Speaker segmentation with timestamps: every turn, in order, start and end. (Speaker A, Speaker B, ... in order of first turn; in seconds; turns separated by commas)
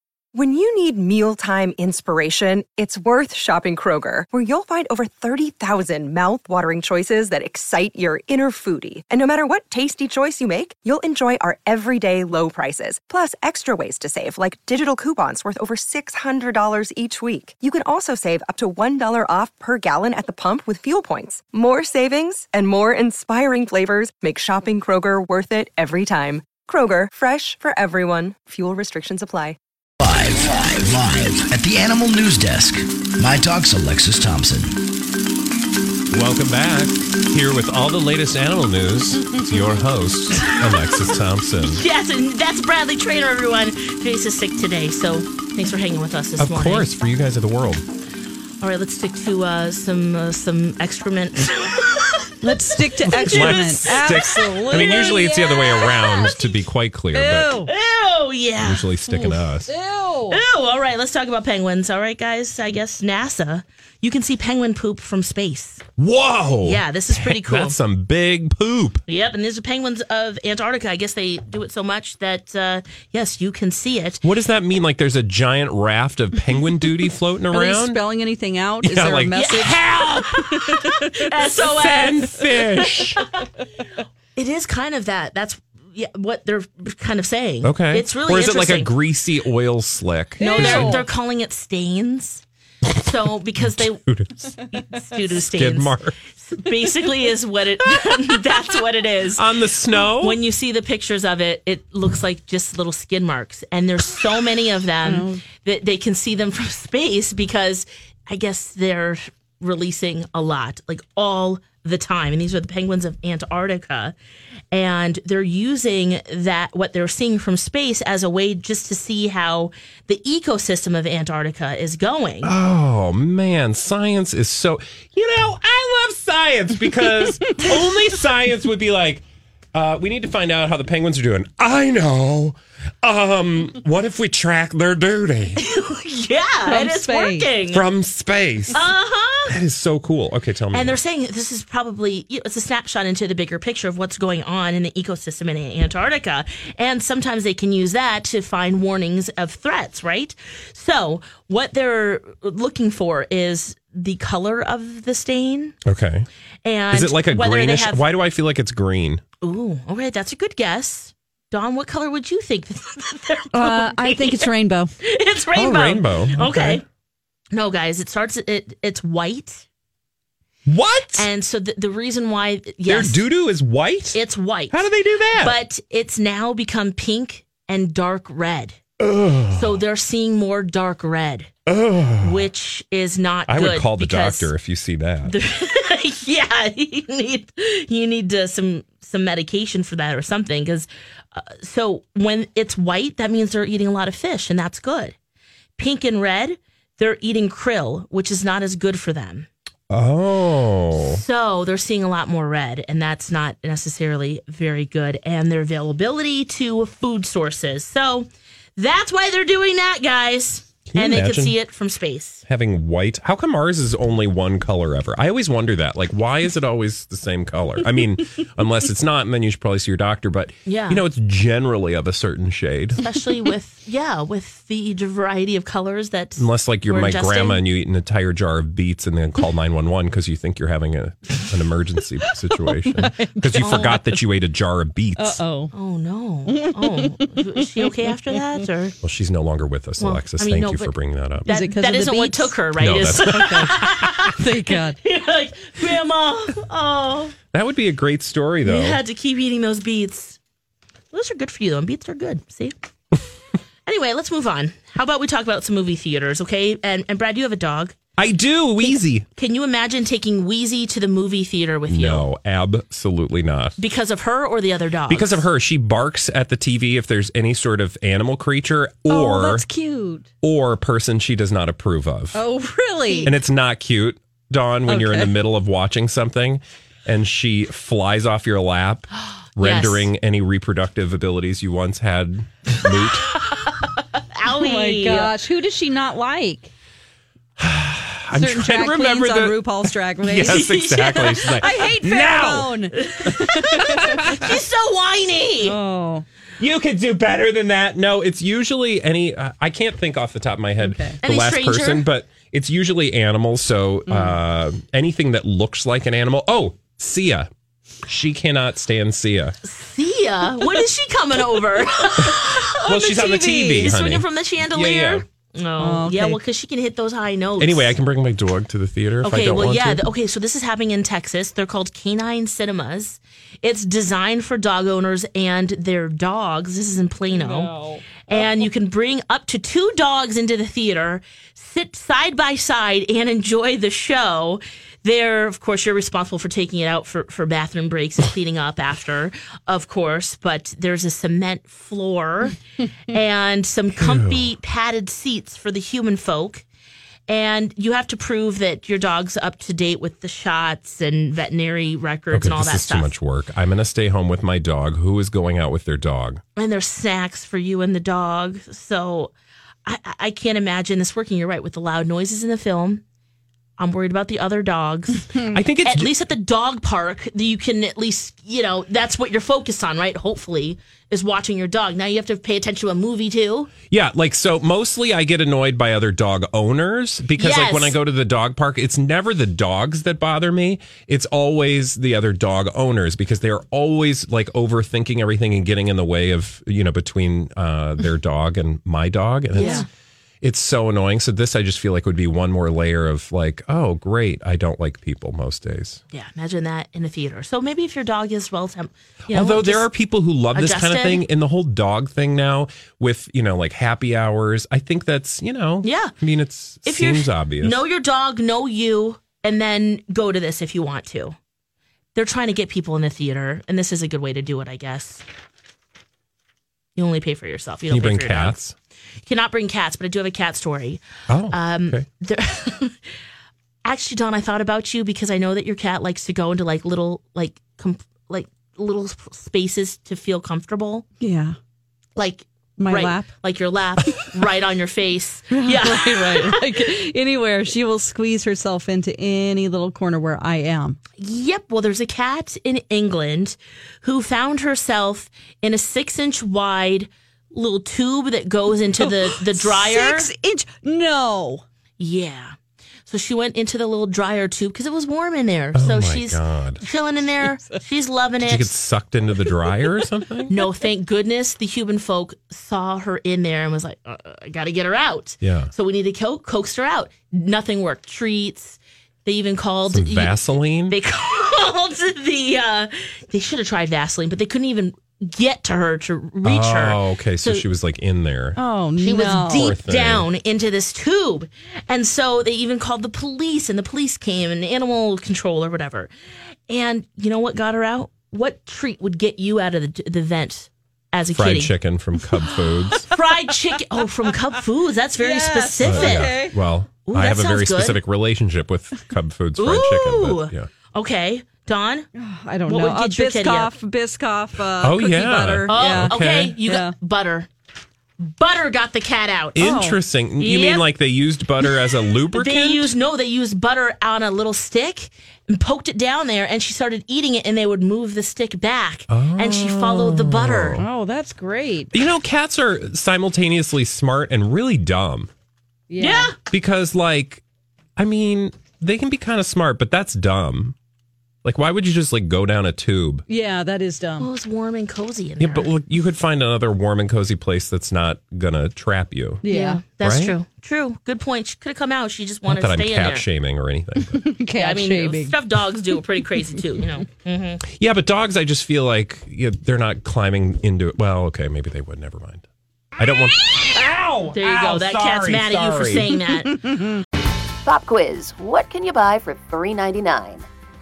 Speaker A: 0.3-29.6, Speaker B: 30.0-34.7, Speaker C: 36.1-41.8, Speaker D: 41.6-46.9, Speaker C: 46.4-47.9, Speaker D: 48.6-56.7, Speaker E: 52.4-55.5, Speaker C: 53.1-57.5, Speaker E: 57.1-57.7, Speaker D: 57.7-59.2, Speaker C: 58.6-59.7, Speaker E: 59.7-60.4, Speaker D: 60.3-65.8, Speaker C: 66.0-69.0, Speaker D: 66.6-67.8, Speaker D: 69.1-74.2, Speaker C: 74.2-78.0, Speaker E: 77.5-79.8, Speaker C: 78.8-80.3, Speaker D: 79.3-83.1, Speaker C: 81.5-83.2, Speaker D: 84.3-89.0, Speaker C: 87.6-91.0, Speaker E: 90.4-91.0, Speaker D: 90.4-94.0, Speaker C: 93.6-94.4, Speaker D: 94.7-114.2, Speaker C: 95.5-96.2, Speaker C: 99.4-100.4, Speaker E: 105.0-105.4, Speaker D: 114.7-122.5, Speaker C: 122.4-135.6, Speaker D: 135.6-137.9, Speaker E: 136.7-137.5, Speaker C: 137.7-138.9, Speaker D: 138.7-139.6, Speaker C: 139.5-141.0, Speaker D: 140.7-155.8, Speaker C: 155.8-156.3, Speaker D: 156.6-158.1, Speaker C: 156.9-159.2, Speaker D: 159.4-164.5, Speaker E: 163.5-164.9, Speaker D: 165.0-166.8, Speaker C: 165.5-166.8, Speaker D: 167.5-169.7, Speaker C: 170.7-171.3, Speaker D: 171.1-173.3, Speaker C: 172.9-175.6, Speaker D: 174.1-178.8, Speaker C: 179.0-179.8, Speaker D: 179.5-181.5, Speaker C: 181.7-182.5, Speaker D: 182.2-184.5, Speaker C: 183.5-185.4, Speaker D: 185.2-195.2, Speaker D: 195.8-199.5, Speaker C: 199.9-201.2, Speaker D: 200.9-212.4, Speaker C: 210.9-211.6, Speaker C: 212.5-223.0, Speaker D: 220.7-221.0, Speaker D: 223.0-227.7, Speaker C: 226.4-235.4, Speaker E: 232.9-233.9, Speaker E: 235.2-235.7, Speaker D: 235.7-239.0, Speaker E: 236.5-238.6, Speaker C: 239.0-241.5, Speaker D: 240.0-247.4, Speaker E: 241.5-242.6, Speaker C: 242.8-243.8, Speaker E: 243.2-245.0, Speaker C: 247.5-249.0, Speaker D: 248.7-250.4, Speaker D: 251.1-252.8, Speaker D: 253.9-258.0, Speaker C: 258.2-259.3, Speaker D: 258.8-262.3, Speaker C: 261.9-263.8, Speaker D: 263.8-265.5, Speaker C: 265.1-269.7, Speaker E: 269.1-270.3, Speaker C: 270.4-272.4, Speaker E: 272.3-273.3, Speaker D: 273.1-273.3, Speaker C: 273.2-283.3, Speaker E: 274.9-275.4, Speaker D: 279.6-280.1, Speaker D: 283.0-283.5, Speaker D: 284.3-285.3, Speaker E: 284.6-286.7, Speaker C: 287.6-289.7, Speaker E: 288.3-292.9, Speaker C: 290.2-292.8, Speaker D: 290.4-291.9, Speaker D: 292.9-295.8, Speaker E: 293.5-294.2, Speaker E: 295.6-296.2, Speaker C: 296.6-307.5, Speaker E: 300.8-301.1, Speaker D: 301.2-302.1, Speaker C: 308.1-309.6, Speaker D: 309.6-318.0, Speaker C: 312.9-315.2, Speaker E: 315.8-316.4, Speaker C: 317.6-320.0, Speaker D: 319.2-342.6, Speaker E: 327.3-328.7, Speaker D: 343.1-346.6, Speaker C: 344.0-344.5, Speaker D: 347.3-353.1, Speaker C: 352.3-356.4, Speaker D: 356.6-359.3, Speaker D: 359.9-363.0, Speaker D: 363.8-365.2, Speaker C: 365.5-366.1, Speaker D: 365.8-373.7, Speaker C: 373.9-389.9, Speaker D: 377.4-378.0, Speaker D: 389.5-389.9, Speaker C: 390.4-396.0, Speaker D: 396.1-399.9, Speaker C: 399.3-407.8, Speaker D: 400.5-401.3, Speaker D: 405.8-406.1, Speaker D: 406.9-411.4, Speaker D: 412.1-415.2, Speaker D: 417.0-418.6, Speaker C: 417.9-418.8, Speaker D: 419.2-423.0, Speaker C: 421.3-422.1, Speaker D: 423.9-431.1, Speaker E: 431.2-431.6, Speaker D: 432.2-436.9, Speaker E: 432.8-433.3, Speaker E: 435.5-441.0, Speaker D: 441.2-450.3, Speaker E: 449.0-451.6, Speaker D: 452.0-452.6, Speaker D: 453.1-458.8, Speaker C: 455.7-456.8, Speaker C: 458.4-460.5, Speaker D: 460.5-477.6, Speaker C: 465.4-465.7, Speaker C: 469.9-471.0, Speaker C: 476.4-478.6, Speaker E: 478.6-479.7, Speaker D: 479.0-486.1, Speaker C: 479.5-480.3, Speaker D: 486.7-491.7, Speaker C: 491.4-493.1, Speaker D: 493.1-496.4, Speaker E: 495.2-496.6, Speaker C: 495.8-500.7, Speaker D: 497.0-498.0, Speaker D: 499.6-502.1, Speaker E: 502.2-506.9, Speaker D: 502.7-503.7, Speaker C: 504.8-506.5, Speaker D: 505.7-507.5, Speaker D: 508.2-509.7, Speaker C: 509.6-512.9, Speaker E: 509.6-510.0, Speaker D: 510.4-510.9, Speaker D: 512.3-520.8, Speaker C: 519.1-520.9, Speaker E: 520.8-521.9, Speaker C: 521.9-525.3, Speaker E: 525.9-526.3, Speaker D: 526.0-526.3, Speaker C: 526.5-527.4, Speaker C: 528.0-530.8, Speaker C: 531.4-533.2, Speaker E: 533.3-534.3, Speaker D: 534.2-535.7, Speaker C: 535.4-539.4, Speaker E: 539.4-539.8, Speaker D: 539.5-543.3, Speaker C: 540.0-540.4, Speaker C: 542.5-544.2, Speaker E: 544.0-545.4, Speaker D: 544.5-547.6, Speaker C: 547.6-552.5, Speaker C: 553.0-556.1, Speaker D: 554.3-556.9, Speaker F: 557.6-560.5